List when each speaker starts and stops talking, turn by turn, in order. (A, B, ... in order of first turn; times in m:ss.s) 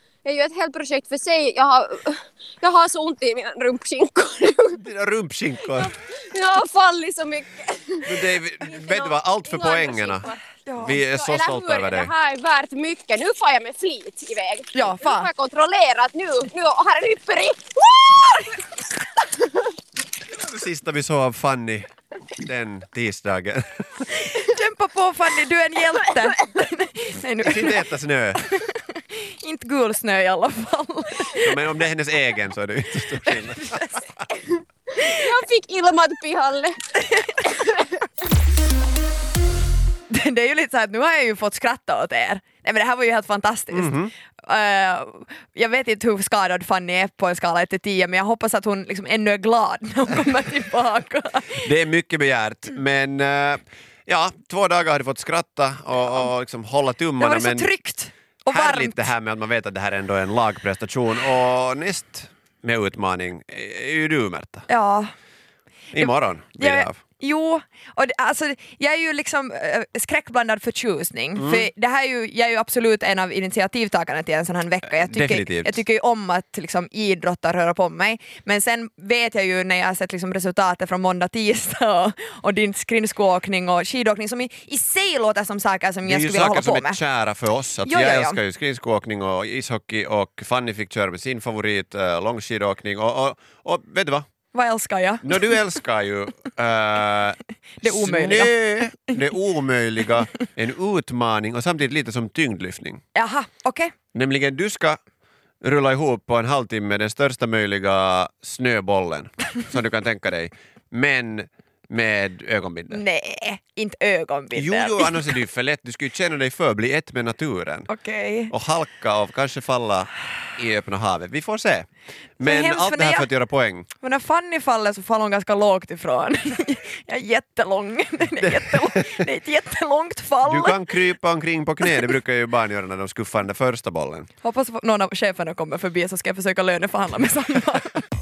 0:00.2-0:04.8 A
0:04.8-0:05.9 B
0:05.6-0:10.5 A
0:08.1-0:12.1 B
0:10.7-0:11.0 C
0:11.1-0:18.7 A
0:14.7-0:15.3 C
0:19.3-0:19.7 A
0:20.3-0:21.9 B
0:22.4-0:24.3 B
0:24.5-0:31.6 C
0:27.4-0:28.4 B
0:31.4-0:34.2 B
0:33.3-0:34.0 C
0:34.9-0:36.8 A
0:35.0-0:35.2 C
0:37.0-0:37.6 C
0:37.4-0:38.0 A
0:40.1-0:51.7 C
0:43.7-0:44.1 B
0:51.6-0:57.7 B
0:57.2-0:59.0 C
0:58.5-1:04.7 B
1:04.7-1:05.1 C
1:05.9-1:07.0 B
1:06.0-1:27.0 C
1:11.4-1:11.7 B
1:14.9-1:15.8 B
1:26.0-1:34.3 B
1:27.8-1:28.4 C
1:34.5-1:35.7 C
1:35.2-1:43.0 B
1:37.8-1:39.2 C
1:43.2-1:43.9 C
1:44.1-1:45.0 B
1:45.6-1:53.0 B
1:52.9-1:55.4 C
1:54.6-1:57.9 B
1:57.9-1:58.5 C
1:58.5-2:01.9 B
2:02.4-2:03.9 B
2:02.4-2:03.3 C
2:04.0-2:11.0 C
2:08.4-2:09.3 B
2:10.4-2:14.3 B
2:14.4-2:18.1 C